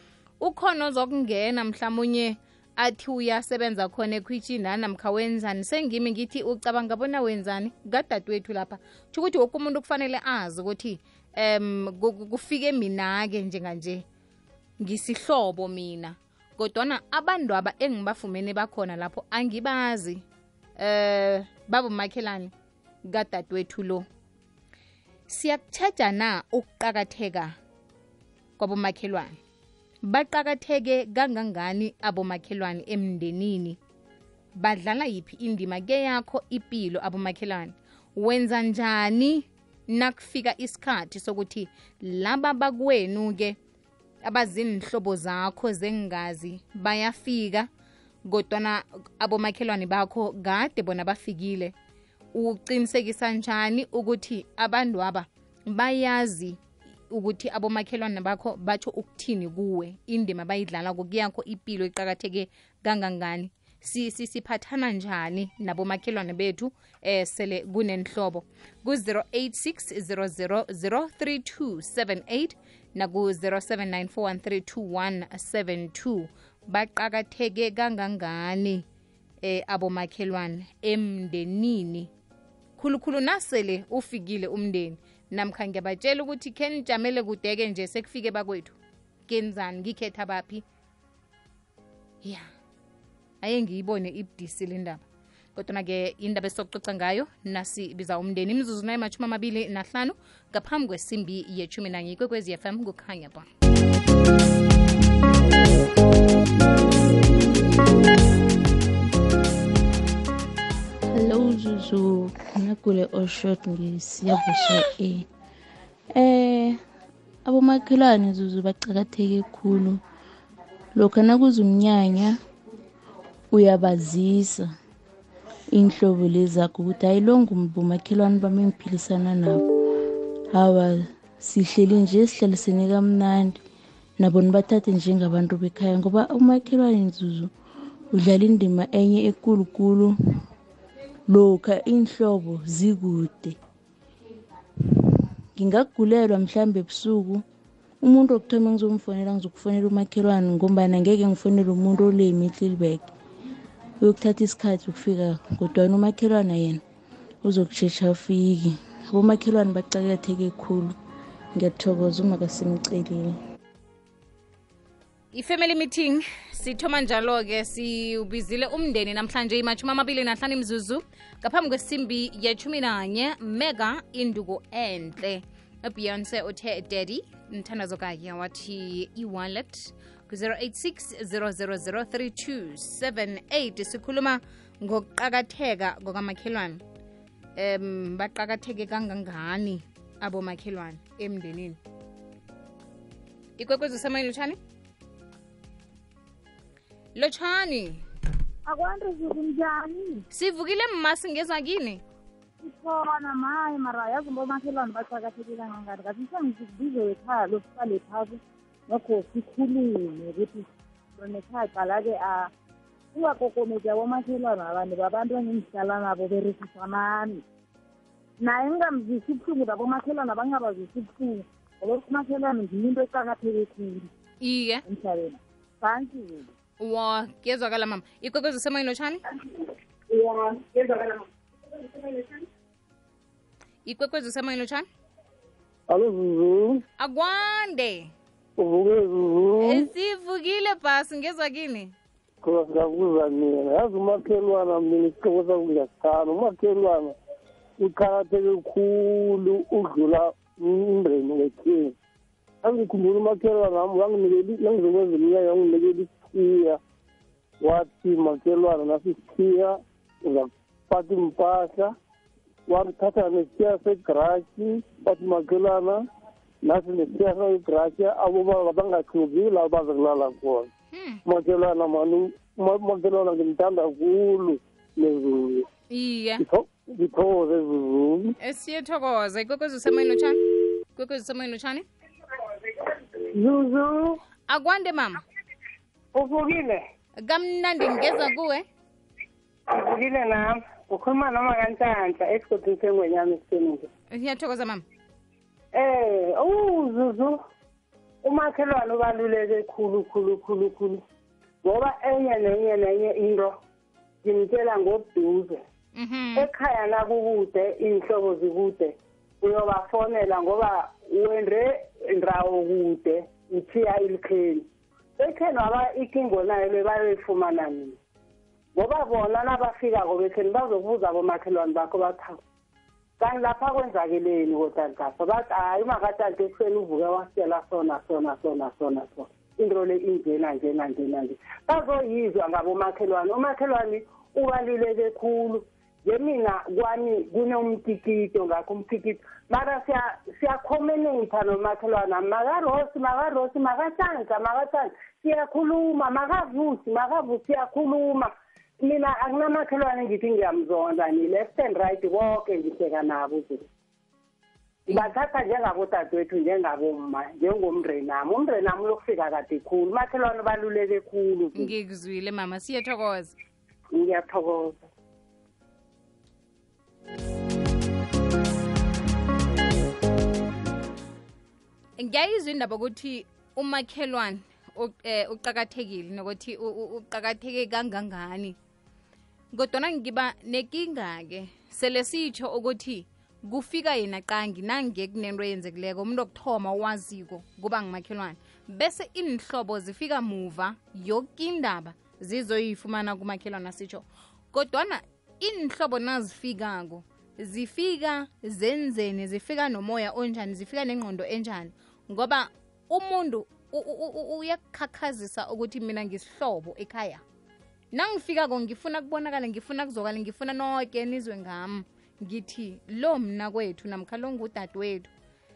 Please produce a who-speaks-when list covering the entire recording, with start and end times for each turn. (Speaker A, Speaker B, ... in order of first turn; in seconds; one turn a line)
Speaker A: 0.4-14.1
Speaker A: 14.8-20.2
Speaker A: 20.8-22.5
Speaker A: 23.1-24.1
Speaker A: 25.3-27.6
Speaker A: 28.6-29.4
Speaker A: 30.1-33.8
Speaker A: 34.6-43.6
Speaker A: 44.2-47.7
Speaker A: 48.3-51.7
Speaker A: 52.3-78.8
Speaker A: 79.4-82.1
Speaker A: 82.8-90.6
Speaker A: 92.2-92.5
Speaker A: 93.4-95.0
Speaker A: 95.6-103.5
Speaker B: 111.1-115.3
Speaker B: 116.1-116.8
Speaker B: 117.5-120.0
Speaker B: 121.0-122.4
Speaker B: 123.5-124.7
Speaker B: 125.7-129.6
Speaker B: 130.5-133.6
Speaker B: 134.2-137.5
Speaker B: 138.1-140.2
Speaker B: 141.3-143.6
Speaker B: 145.6-147.4
Speaker B: 148.0-153.1
Speaker B: 154.0-156.8
Speaker B: 157.4-161.0
Speaker B: 161.6-163.4
Speaker A: 165.3-186.8
Speaker A: 187.6-191.8
Speaker A: 193.6-194.6
Speaker A: 197.2-198.0
Speaker C: 198.7-200.2
Speaker A: 200.3-202.0
Speaker C: 202.6-212.5
Speaker C: 213.1-217.4
Speaker C: 218.4-224.1
Speaker A: 224.4-224.8
Speaker C: 224.9-226.5
Speaker A: 226.8-229.2
Speaker D: 230.1-231.2
Speaker A: 233.9-234.9
Speaker E: 235.9-236.8
Speaker A: 237.0-238.1
Speaker E: 238.6-239.9
Speaker A: 239.6-241.9
Speaker E: 242.4-247.2
Speaker E: 247.8-251.9
Speaker E: 252.6-256.8
Speaker E: 257.6-261.9
Speaker E: 262.7-266.0
Speaker E: 266.6-270.7
Speaker A: 270.9-271.2
Speaker E: 271.2-275.7
Speaker A: 275.9-276.4
Speaker E: 276.4-278.4
Speaker A: 278.4-280.4
Speaker A: 280.9-281.9
Speaker D: 283.3-284.2
Speaker A: 284.5-285.2
Speaker D: 286.1-286.9
Speaker A: 287.2-288.7
Speaker D: 289.7-293.9
Speaker A: 294.1-294.8
Speaker D: 295.7-297.4
Speaker D: 298.2-301.0
Speaker D: 301.6-303.6
Speaker D: 304.2-305.6
Speaker A: 305.9-306.5
Speaker D: 306.4-314.7
Speaker D: 315.2-318.0
Speaker D: 318.8-322.4
Speaker D: 323.2-353.7
Speaker D: 354.9-361.7
Speaker A: 361.6-363.3
Speaker D: 363.9-364.9
Speaker A: 372.0-378.6
Speaker A: 379.5-407.2
Speaker A: 407.9-415.1